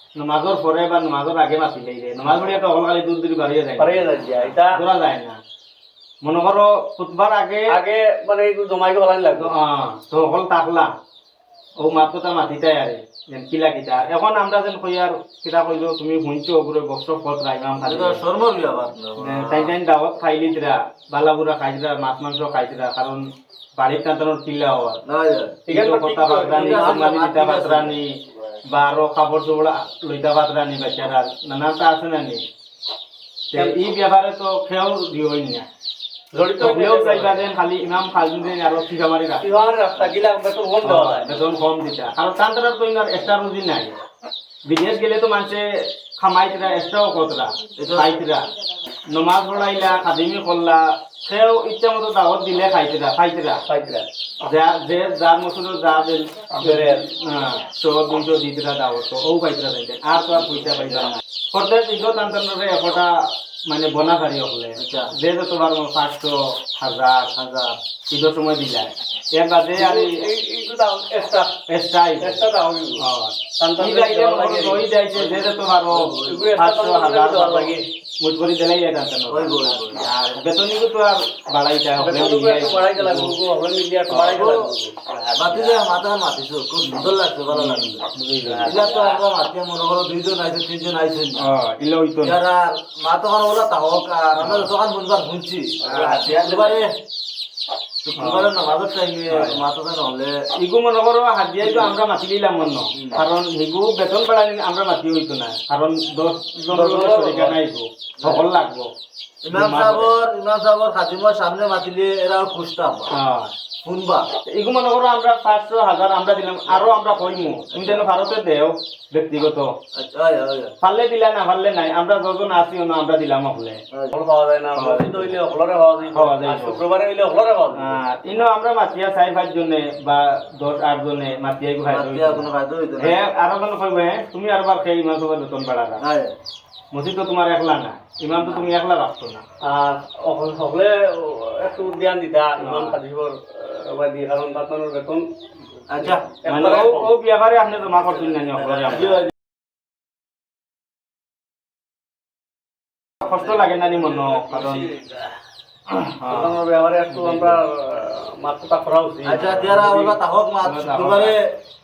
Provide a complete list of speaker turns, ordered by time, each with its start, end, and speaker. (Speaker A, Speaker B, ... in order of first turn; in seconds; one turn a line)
Speaker A: 0.2-5.3
Speaker B: 3.8-4.7
Speaker A: 6.2-7.7
Speaker B: 7.7-9.5
Speaker A: 9.4-10.9
Speaker A: 11.8-18.2
Speaker C: 17.8-19.7
Speaker A: 19.2-23.2
Speaker A: 23.8-25.0
Speaker C: 25.1-25.6
Speaker B: 25.7-27.1
Speaker A: 25.7-32.4
Speaker C: 26.5-28.0
Speaker A: 33.5-35.6
Speaker B: 33.5-33.8
Speaker B: 36.3-37.4
Speaker A: 36.6-39.5
Speaker B: 39.4-41.4
Speaker A: 40.8-43.9
Speaker A: 44.7-45.6
Speaker A: 46.2-48.5
Speaker C: 47.8-48.2
Speaker A: 49.1-53.6
Speaker B: 53.7-54.1
Speaker A: 54.4-67.3
Speaker B: 56.5-57.0
Speaker C: 64.8-65.1
Speaker C: 67.3-67.8
Speaker A: 68.1-70.2
Speaker B: 69.8-71.5
Speaker A: 71.7-72.4
Speaker B: 72.2-73.0
Speaker A: 73.0-83.3
Speaker B: 73.6-75.2
Speaker B: 76.0-77.8
Speaker C: 76.2-76.5
Speaker C: 79.3-80.0
Speaker B: 82.0-85.8
Speaker A: 84.1-84.3
Speaker C: 84.2-84.7
Speaker C: 85.3-91.4
Speaker A: 86.8-88.7
Speaker B: 88.4-89.2
Speaker A: 91.4-92.4
Speaker C: 92.2-96.9
Speaker A: 94.4-94.7
Speaker B: 95.9-96.8
Speaker C: 98.0-100.4
Speaker A: 98.2-98.5
Speaker A: 99.3-99.6
Speaker A: 100.6-108.9
Speaker C: 102.9-103.2
Speaker B: 106.7-107.5
Speaker C: 106.7-107.4
Speaker C: 108.2-108.5
Speaker C: 109.4-113.1
Speaker A: 109.5-110.1
Speaker A: 113.1-113.5
Speaker C: 113.8-114.3
Speaker A: 114.5-119.7
Speaker C: 116.7-118.1
Speaker C: 119.9-120.7
Speaker A: 120.8-123.8
Speaker B: 124.1-128.0
Speaker A: 124.7-125.4
Speaker A: 126.1-126.8
Speaker A: 127.8-132.5
Speaker C: 131.9-133.2
Speaker A: 133.0-136.0
Speaker C: 136.0-136.3
Speaker A: 136.9-139.4
Speaker B: 139.6-145.2
Speaker A: 142.6-142.9
Speaker C: 145.9-146.4
Speaker B: 145.9-147.1
Speaker A: 146.4-149.2
Speaker B: 148.3-149.3
Speaker A: 153.2-154.9
Speaker B: 153.9-155.3
Speaker A: 155.9-156.5
Speaker B: 156.2-160.2
Speaker A: 157.1-157.6
Speaker C: 159.2-161.6
Speaker A: 160.6-161.4